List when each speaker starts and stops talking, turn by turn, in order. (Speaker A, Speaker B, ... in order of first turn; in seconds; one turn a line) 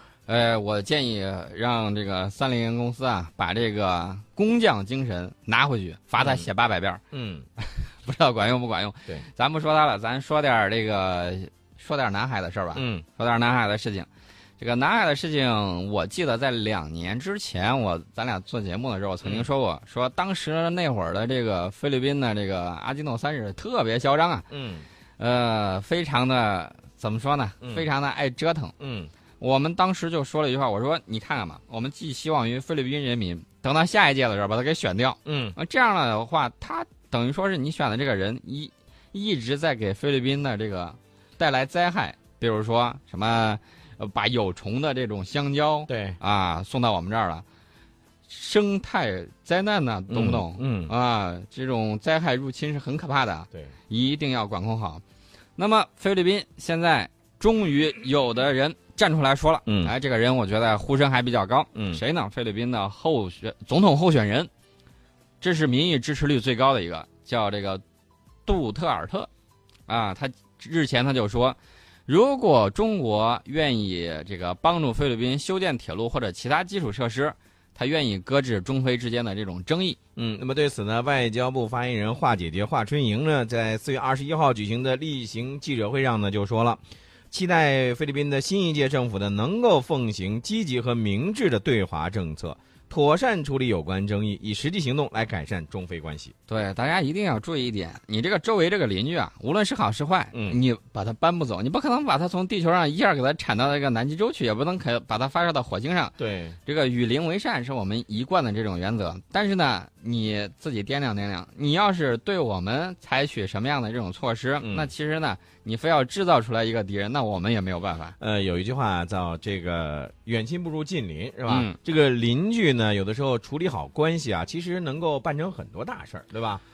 Speaker A: 0.3-7.0
Speaker B: 6.2-6.5
Speaker B: 7.1-7.5
Speaker A: 7.6-14.1
Speaker B: 12.7-13.0
Speaker A: 14.6-24.5
Speaker B: 24.5-24.9
Speaker A: 25.2-28.7
Speaker B: 28.8-29.1
Speaker A: 29.4-47.4
Speaker B: 35.2-35.6
Speaker B: 45.9-46.2
Speaker A: 48.3-55.0
Speaker B: 50.1-50.9
Speaker A: 55.6-64.5
Speaker B: 59.6-59.9
Speaker B: 61.7-62.0
Speaker A: 65.4-67.8
Speaker A: 68.5-69.3
Speaker A: 69.9-80.0
Speaker B: 80.2-96.3
Speaker A: 96.5-106.1
Speaker B: 106.2-106.6
Speaker A: 106.7-118.2
Speaker B: 114.6-114.9
Speaker B: 118.2-126.6
Speaker A: 121.5-121.8